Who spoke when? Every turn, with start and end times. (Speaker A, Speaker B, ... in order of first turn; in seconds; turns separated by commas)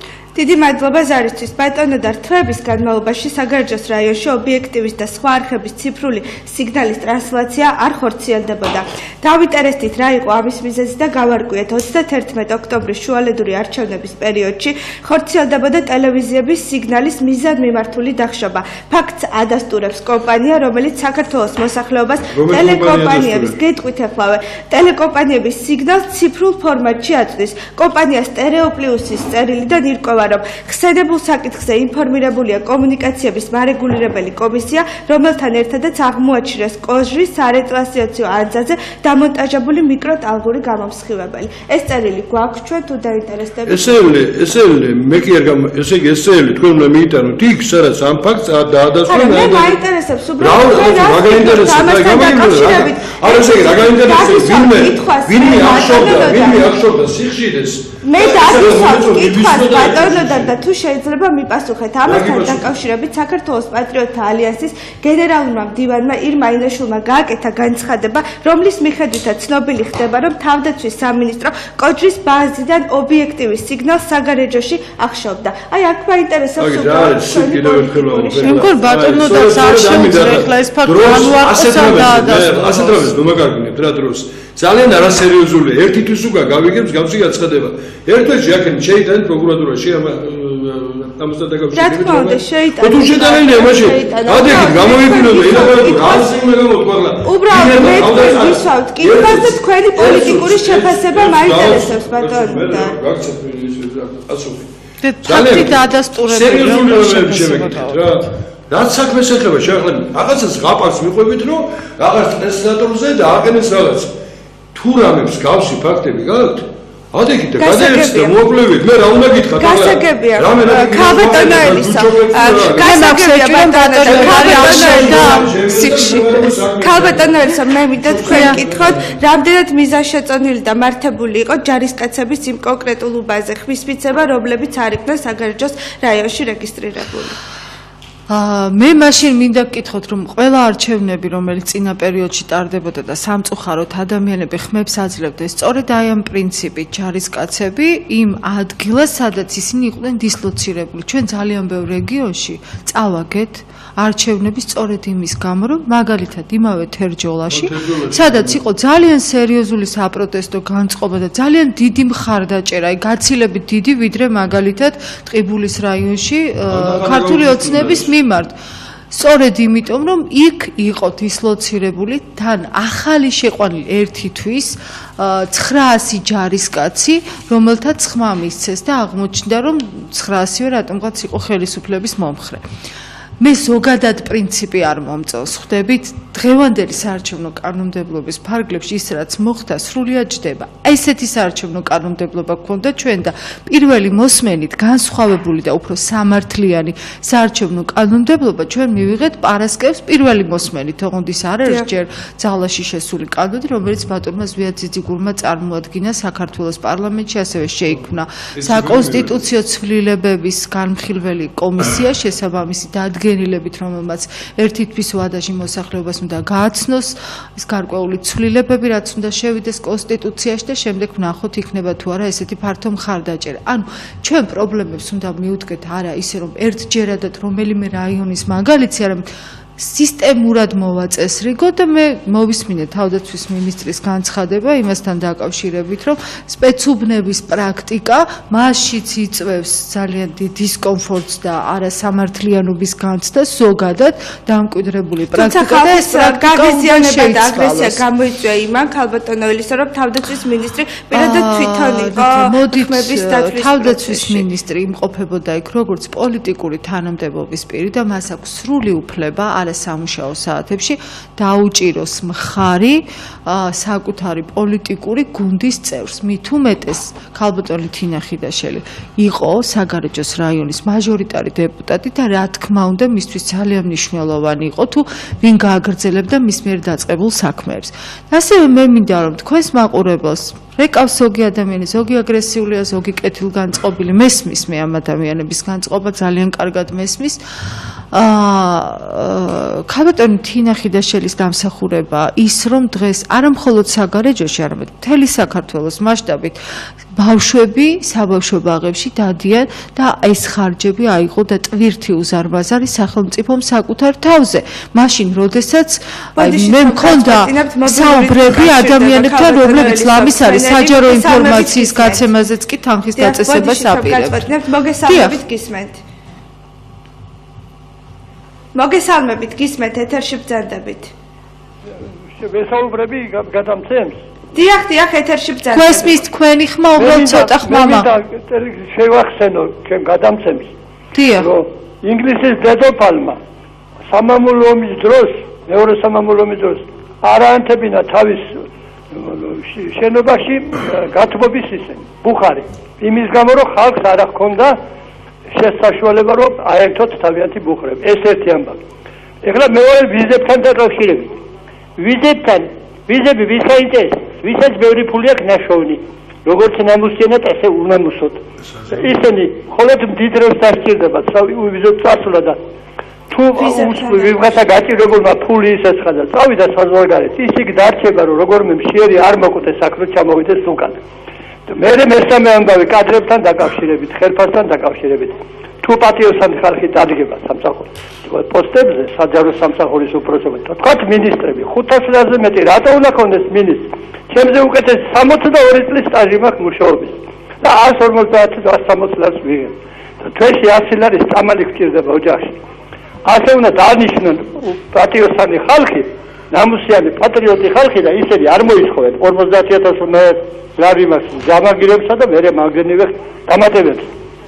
Speaker A: 0.3-44.1, Speaker B: 22.3-23.5, Speaker B: 43.7-49.8, Speaker A: 49.1-56.7, Speaker B: 50.4-60.5, Speaker A: 58.0-78.7, Speaker B: 62.0-62.6, Speaker B: 76.6-104.7, Speaker C: 78.4-83.1, Speaker A: 91.7-96.3, Speaker A: 97.2-103.0, Speaker C: 105.0-108.1, Speaker B: 105.2-114.1, Speaker B: 114.7-122.9, Speaker A: 117.6-118.3, Speaker A: 119.6-125.5, Speaker C: 122.8-126.6, Speaker B: 124.0-129.2, Speaker A: 126.8-137.3, Speaker C: 128.2-128.6, Speaker C: 138.3-168.5, Speaker B: 157.5-158.6, Speaker B: 166.7-168.1, Speaker C: 169.1-182.6, Speaker C: 183.4-229.2, Speaker B: 208.5-209.4, Speaker C: 229.8-248.0, Speaker A: 245.3-254.4, Speaker C: 251.1-287.4, Speaker C: 288.1-296.6, Speaker C: 297.1-314.5, Speaker A: 306.4-312.2, Speaker A: 313.1-316.0, Speaker C: 315.0-315.4, Speaker A: 318.7-321.1, Speaker D: 322.3-324.2, Speaker A: 324.5-326.2, Speaker C: 325.7-328.1, Speaker D: 326.9-330.7, Speaker C: 331.1-331.5, Speaker D: 331.4-333.4, Speaker D: 334.1-344.8, Speaker D: 345.5-348.8, Speaker D: 349.4-351.4, Speaker D: 352.0-362.6, Speaker D: 363.3-371.0, Speaker A: 363.5-364.5, Speaker D: 371.7-392.6, Speaker D: 393.2-404.1